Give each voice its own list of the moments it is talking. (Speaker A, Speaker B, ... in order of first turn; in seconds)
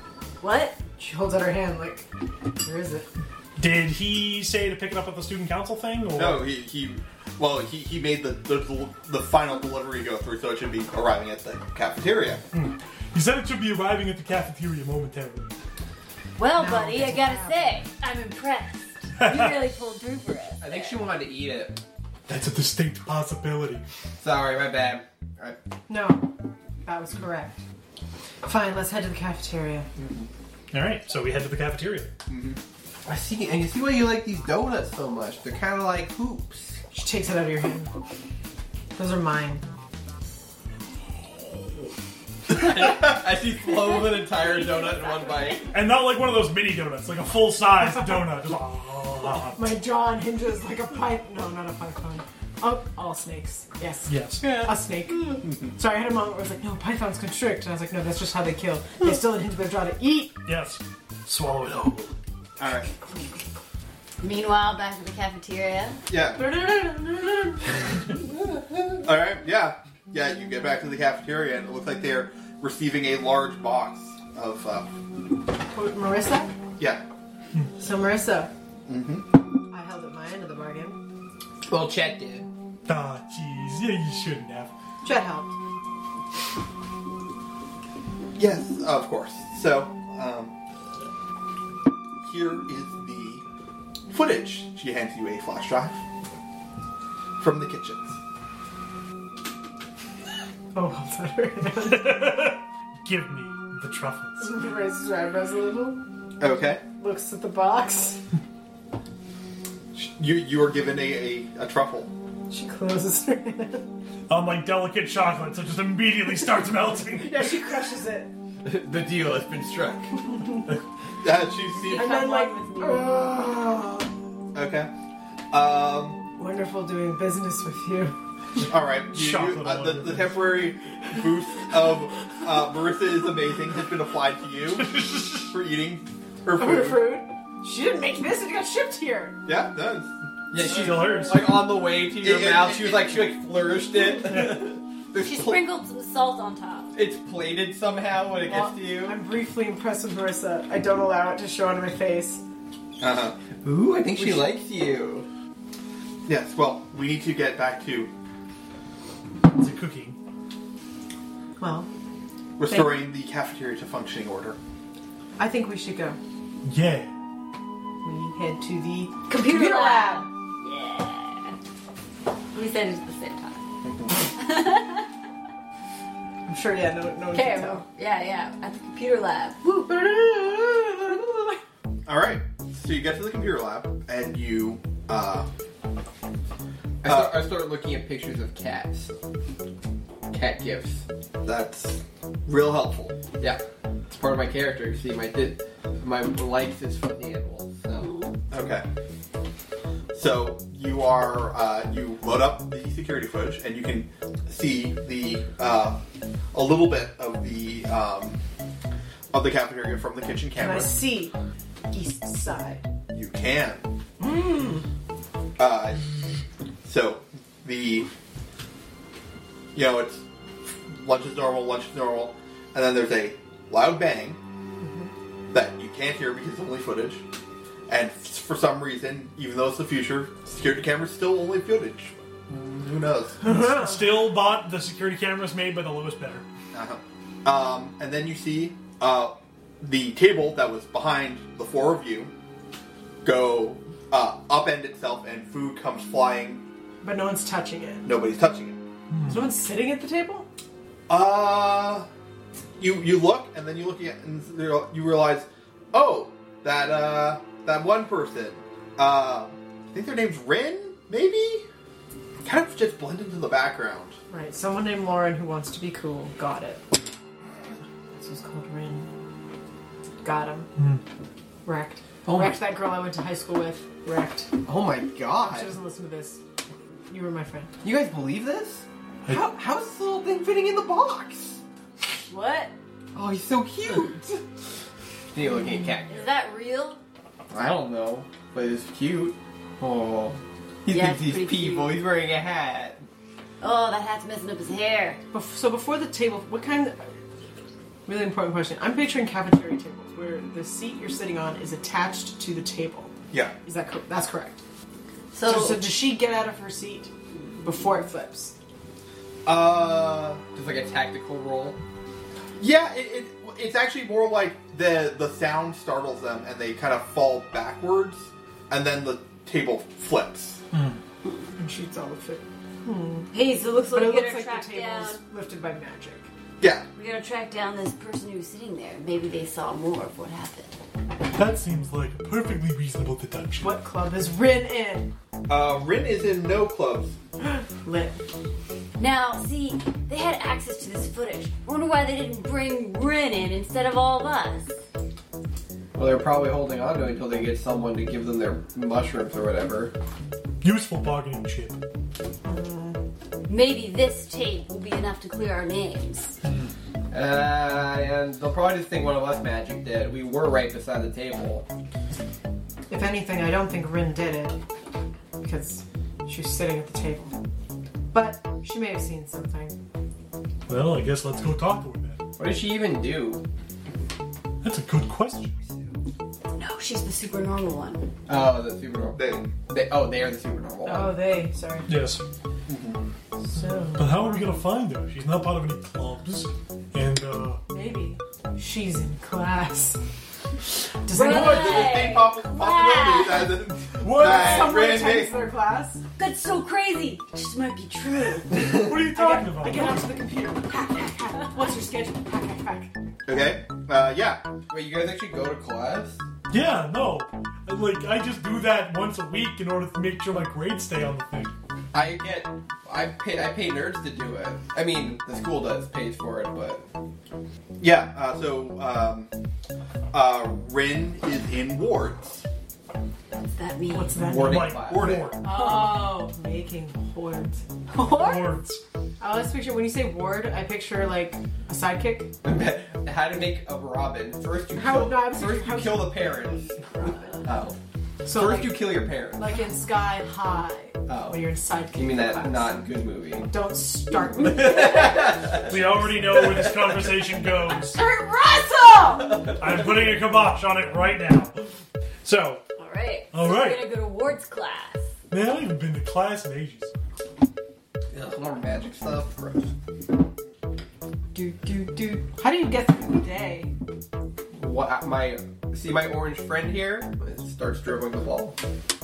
Speaker A: 0.4-0.8, 16.4-21.0, 64.2-66.0, 121.7-123.2, 145.1-146.9, 169.3-171.5, 172.5-173.6, 174.2-175.1, 177.3-179.9, 198.0-198.3, 282.3-282.7, 286.1-287.0, 290.9-292.0, 293.6-295.2, 305.3-305.9, 323.3-325.2, 326.9-330.7, 339.0-344.7, 353.5-356.4, 376.5-378.1, 391.1-393.6, 396.1-398.7, 423.3-424.2, 425.4-426.1, 427.9-428.6, 447.9-449.4, 452.8-455.1, 461.3-462.3
Speaker B: 1.0-3.1, 16.5-17.8, 25.9-26.3, 26.8-27.6, 28.4-29.9, 36.9-37.9, 38.9-39.6, 49.4-60.4, 66.4-67.6, 75.7-76.6, 77.8-78.5, 79.7-81.0, 85.0-85.5, 100.7-102.3, 104.4-106.0, 107.0-108.2, 112.5-113.9, 117.1-118.3, 122.0-124.1, 126.4-128.2, 136.6-139.4, 148.4-152.4, 154.2-154.5, 161.6-161.9, 162.7-162.9, 165.4-166.2, 168.0-170.3, 176.5-177.8, 179.9-181.6, 210.6-211.3, 211.9-212.9, 214.2-214.8, 224.8-225.1, 247.0-248.0, 249.2-250.5, 264.3-266.9, 268.2-269.1, 270.2-270.7, 271.6-274.5, 275.4-276.4, 277.1-277.7, 295.3-297.1, 298.1-303.1, 303.6-304.6, 305.4-307.1, 307.6-308.5, 321.6-323.3, 323.9-326.3, 333.6-335.1, 337.7-338.2, 352.4-353.0, 362.9-364.6, 365.4-367.3, 368.1-369.8, 380.8-381.9, 383.4-384.5, 387.7-390.0, 391.0-391.9, 394.1-396.0, 398.9-402.9, 423.9-424.8, 425.4-427.6, 429.2-432.3, 434.7-437.4, 438.2-442.9, 443.5-446.5, 462.4-463.7
Speaker C: 3.6-6.4, 12.5-15.5, 19.2-19.5, 22.3-23.8, 30.7-32.1, 45.7-49.8, 54.0-54.6, 60.5-62.1, 82.9-84.7, 101.7-104.6, 114.3-117.5, 129.1-130.4, 134.8-135.5, 140.6-141.6, 144.3-144.7, 159.5-160.2, 166.6-167.1, 233.4-236.4, 249.1-249.5, 270.8-271.0, 279.2-279.5, 320.7-321.0, 331.3-333.7, 350.6-351.8, 370.7-372.2, 374.6-375.6, 381.9-382.2, 383.9-387.6, 393.9-394.8, 398.6-400.2, 406.5-411.5, 424.3-425.4, 428.0-428.8, 445.7-448.0, 449.5-451.6, 452.2-452.6, 453.3-453.9, 455.3-456.9
Speaker D: 6.1-12.4, 30.0-30.3, 32.3-32.6, 62.6-62.9, 66.1-66.4, 68.9-74.9, 76.8-77.0, 78.9-79.3, 88.4-90.5, 92.2-93.4, 94.1-96.0, 97.4-98.2, 106.4-106.8, 109.9-112.1, 121.2-122.1, 124.5-124.9, 125.5-126.2, 128.7-137.1, 139.4-140.1, 142.2-143.4, 153.0-153.4, 156.3-158.1, 162.6-164.6, 173.8-174.2, 182.1-185.5, 187.0-187.5, 191.4-193.2, 198.5-198.9, 200.1-206.0, 206.5-208.4, 209.3-211.0, 213.1-213.9, 215.6-216.0, 216.8-218.1, 219.7-224.4, 225.5-227.2, 227.9-233.4, 236.7-242.3, 243.2-246.6, 248.0-248.8, 251.1-252.1, 252.8-261.6, 262.4-264.1, 309.4-310.4, 312.6-320.6, 326.6-326.9, 335.5-337.1, 379.1-379.5, 382.7-383.0, 391.1-395.3, 403.2-404.4, 417.8-419.3, 420.1-422.4, 424.9-425.3
Speaker E: 20.6-21.8, 24.2-25.6, 33.0-36.8, 42.5-45.7, 81.7-82.5, 118.6-120.2, 140.5-145.7, 146.9-149.2, 153.6-155.3, 187.0-189.1, 190.3-191.0, 193.4-198.1, 272.2-272.6, 274.6-275.7, 277.8-281.6, 283.1-284.4, 285.3-286.2, 287.5-293.0, 310.5-311.8, 345.9-349.9, 357.1-361.6, 372.4-373.4, 378.3-381.1, 404.7-406.2, 411.9-416.9, 424.2-425.3, 432.4-436.9, 437.4-439.5, 441.1-443.5, 444.4-445.7, 446.3-446.7, 458.1-459.7, 464.5-468.6